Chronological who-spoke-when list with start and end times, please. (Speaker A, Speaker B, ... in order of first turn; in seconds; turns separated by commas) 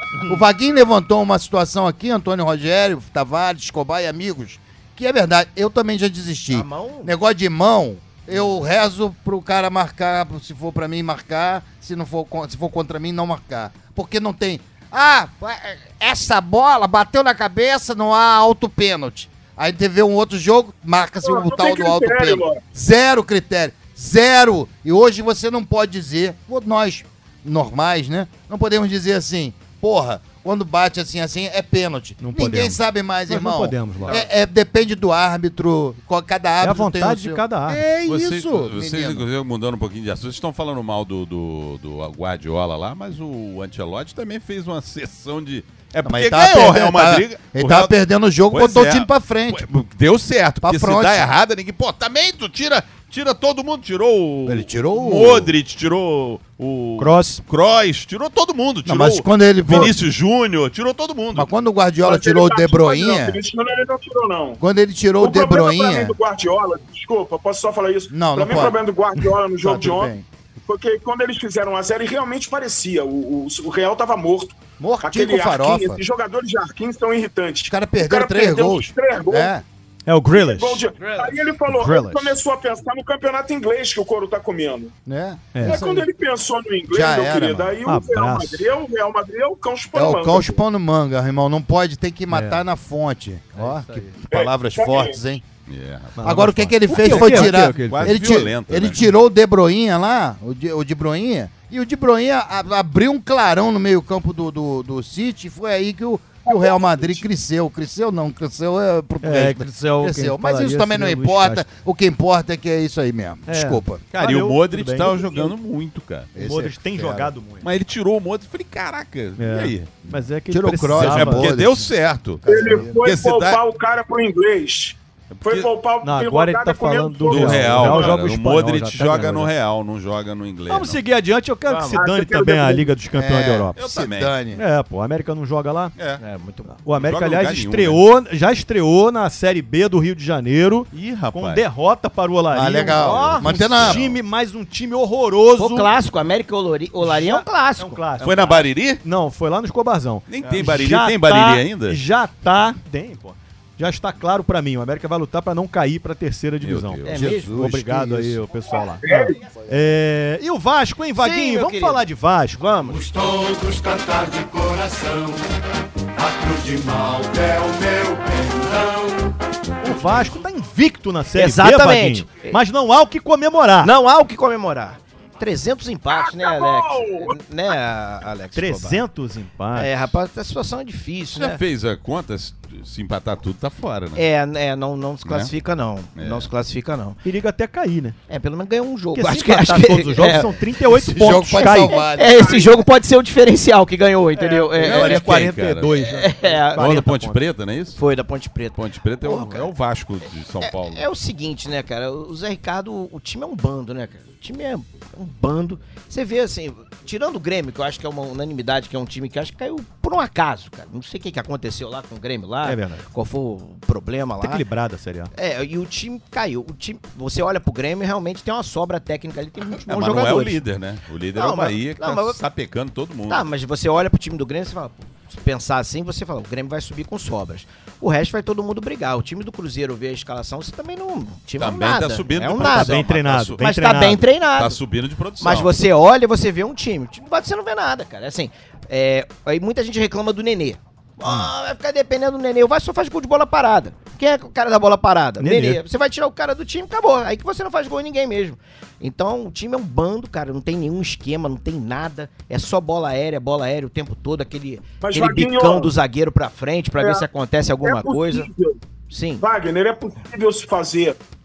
Speaker A: 0.2-39.2, Speaker B: 6.5-7.1, Speaker C: 21.2-22.6, Speaker D: 32.2-34.2, Speaker D: 36.6-37.9, Speaker E: 38.0-47.9, Speaker A: 46.0-49.7, Speaker E: 48.5-61.5, Speaker A: 50.6-51.3, Speaker A: 54.5-55.5, Speaker D: 57.0-57.4, Speaker A: 58.8-60.0, Speaker A: 61.3-63.4, Speaker C: 62.0-64.6, Speaker A: 64.6-66.2, Speaker C: 65.2-70.1, Speaker A: 68.1-68.8, Speaker A: 69.6-70.3, Speaker C: 70.6-79.5, Speaker A: 74.8-76.0, Speaker A: 77.7-79.6, Speaker D: 80.0-80.8, Speaker C: 80.3-84.9, Speaker B: 81.0-81.3, Speaker D: 81.7-82.4, Speaker A: 85.0-86.1, Speaker D: 85.5-85.8, Speaker C: 85.6-90.6, Speaker A: 86.9-87.7, Speaker D: 87.8-88.7, Speaker A: 89.9-95.4, Speaker D: 92.3-92.6, Speaker D: 93.5-94.1, Speaker C: 94.3-95.2, Speaker E: 95.7-99.0, Speaker D: 96.2-98.4, Speaker A: 96.2-114.1, Speaker C: 106.5-106.8, Speaker D: 109.2-111.6, Speaker D: 113.5-115.5, Speaker E: 114.1-116.3, Speaker A: 116.3-117.3, Speaker D: 116.4-117.7, Speaker E: 117.6-120.0, Speaker D: 119.4-121.5, Speaker A: 120.1-121.9, Speaker E: 121.0-123.6, Speaker A: 122.5-123.0, Speaker C: 122.5-128.2, Speaker E: 125.3-125.7, Speaker D: 126.0-129.5, Speaker E: 127.3-131.0, Speaker D: 130.7-133.8, Speaker B: 131.7-132.0, Speaker C: 131.9-132.9, Speaker A: 133.1-134.6, Speaker E: 133.8-134.3, Speaker D: 134.5-135.9, Speaker E: 135.9-136.2, Speaker B: 136.2-136.7, Speaker D: 136.7-145.9, Speaker E: 136.9-138.0, Speaker E: 140.9-141.7, Speaker A: 142.5-144.0, Speaker B: 143.0-143.5, Speaker E: 143.8-144.1, Speaker B: 145.6-148.1, Speaker D: 147.0-162.6, Speaker E: 148.2-149.0, Speaker E: 150.3-152.0, Speaker E: 156.6-157.3, Speaker B: 157.0-157.5, Speaker A: 157.1-158.4, Speaker C: 159.0-159.4, Speaker B: 161.2-162.1, Speaker B: 162.6-163.1, Speaker F: 162.8-165.4, Speaker F: 166.2-169.3, Speaker D: 169.8-173.9, Speaker B: 171.3-172.6, Speaker B: 173.8-179.0, Speaker C: 176.1-177.4, Speaker D: 178.6-179.9, Speaker B: 179.7-181.6, Speaker E: 181.4-184.2, Speaker B: 184.1-187.2, Speaker E: 185.3-185.5, Speaker E: 186.2-186.5, Speaker D: 187.2-188.2, Speaker B: 188.3-190.6, Speaker D: 189.1-192.0, Speaker A: 190.9-192.5, Speaker B: 191.4-195.5, Speaker C: 192.3-192.8, Speaker D: 194.4-197.4, Speaker E: 194.8-196.1, Speaker B: 196.0-197.1, Speaker E: 196.7-198.0, Speaker B: 197.9-199.7, Speaker E: 198.8-201.1, Speaker B: 200.6-214.6, Speaker D: 212.6-213.1, Speaker D: 214.4-215.3, Speaker B: 215.3-220.6, Speaker E: 219.8-223.4, Speaker B: 221.3-222.4, Speaker B: 223.3-234.8, Speaker E: 231.6-233.6, Speaker D: 232.6-234.2, Speaker E: 234.6-235.7, Speaker B: 235.4-258.5, Speaker D: 245.4-245.8, Speaker C: 255.0-255.9, Speaker C: 257.0-257.2, Speaker C: 257.8-258.8, Speaker B: 259.1-259.4, Speaker C: 259.4-261.2